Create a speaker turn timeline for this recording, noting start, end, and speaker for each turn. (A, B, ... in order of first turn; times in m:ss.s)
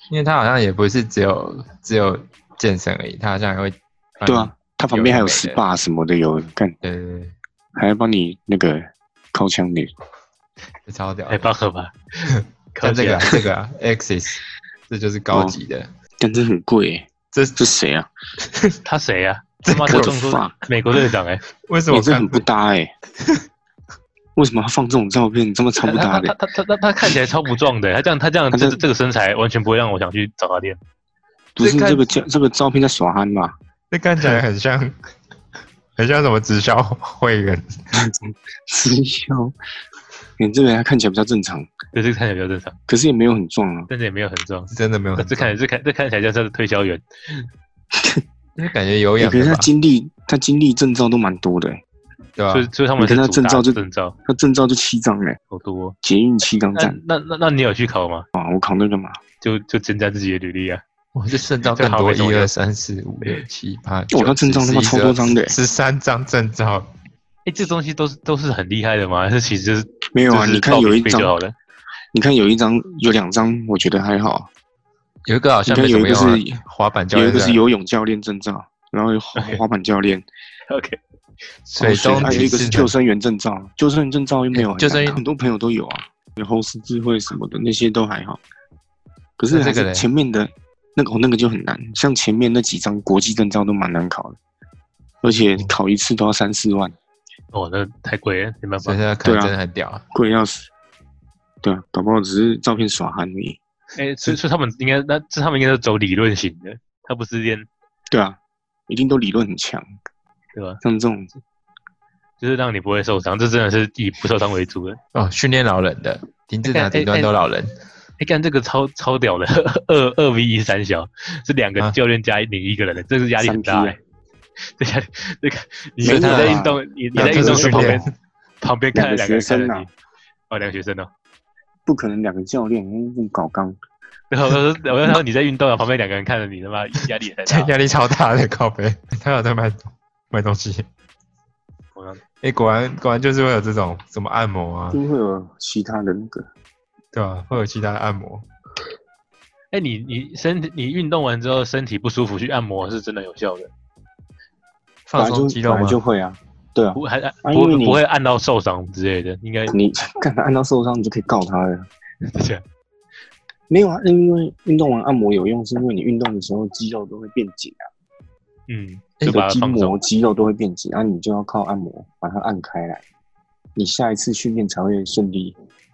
0:00.1-0:05.6 A
0:04.2-0:06.8 B
0:06.8-0:07.3 A
0:07.8-0:09.9 B
0:10.9-0:11.5 A
0:11.3-0:13.4 C
0:12.3-0:15.9 A
0:15.3-0:15.6 B
0:16.2-0:18.1 B
0:17.3-0:17.7 A
0:18.4-0:18.8 A
0:18.8-0:21.4 C
0:19.6-0:20.2 A
0:19.9-0:20.5 B
0:21.7-0:22.4 A
0:21.9-0:22.9 B
0:24.4-0:26.3 B
0:25.8-0:30.8 C
0:28.5-0:28.8 B
0:31.5-0:33.5 B
0:31.6-0:32.2 A
0:33.9-0:35.0 A
0:36.0-0:37.7 A
0:38.0-0:39.5 B
0:40.4-0:41.7 B
0:41.9-0:42.8 C
0:42.9-0:43.9 B
0:43.9-0:47.5 C
0:44.7-0:45.5 A
0:47.9-0:48.2 B
0:48.6-0:49.7 A
0:49.2-0:51.8 B
0:52.4-0:52.7 A
0:52.5-0:54.2 C
0:53.0-0:55.4 B
0:55.5-0:56.0 C
0:56.0-0:57.0 B
0:56.7-0:58.3 C
0:58.3-0:59.2 B
0:59.4-1:00.8 C
1:01.1-1:06.9 A
1:01.7-1:02.5 C
1:04.1-1:05.6 B
1:07.4-1:11.5 C
1:10.1-1:11.3 B
1:12.1-1:14.5 B
1:15.2-1:17.6 A
1:15.7-1:16.6 B
1:17.1-1:20.2 B
1:19.3-1:19.6 C
1:20.7-1:21.0 C
1:21.7-1:22.9 A
1:21.8-1:28.4 B
1:24.5-1:25.2 A
1:29.4-1:34.4 B
1:29.5-1:30.1 A
1:35.2-1:36.9 B
1:37.5-1:39.0 C
1:38.8-1:40.0 A
1:39.2-1:39.5 B
1:40.1-1:40.7 B
1:41.6-1:43.6 B
1:44.0-1:47.7 C
1:48.1-1:49.8 B
1:50.5-1:50.8 C
1:50.8-1:51.3 B
1:52.4-1:55.0 C
1:55.1-1:57.7 A
1:56.6-1:57.3 C
1:58.2-2:04.0 C
2:03.4-2:04.0 B
2:04.8-2:09.9 C
2:06.0-2:06.6 A
2:06.0-2:08.1 B
2:07.1-2:08.1 A
2:08.9-2:09.9 B
2:10.5-2:11.1 C
2:11.8-2:13.8 B
2:14.3-2:17.7 C
2:17.4-2:20.8 A
2:21.9-2:22.2 C
2:22.4-2:25.0 A
2:24.9-2:26.5 B
2:27.1-2:28.4 A
2:29.7-2:33.7 C
2:35.1-2:36.0 A
2:35.2-2:38.0 B
2:36.9-2:39.8 C
2:39.7-2:41.9 B
2:42.2-2:42.6 C
2:43.7-2:47.9 B
2:48.7-2:50.0 C
2:49.2-2:53.0 B
2:53.8-2:55.5 B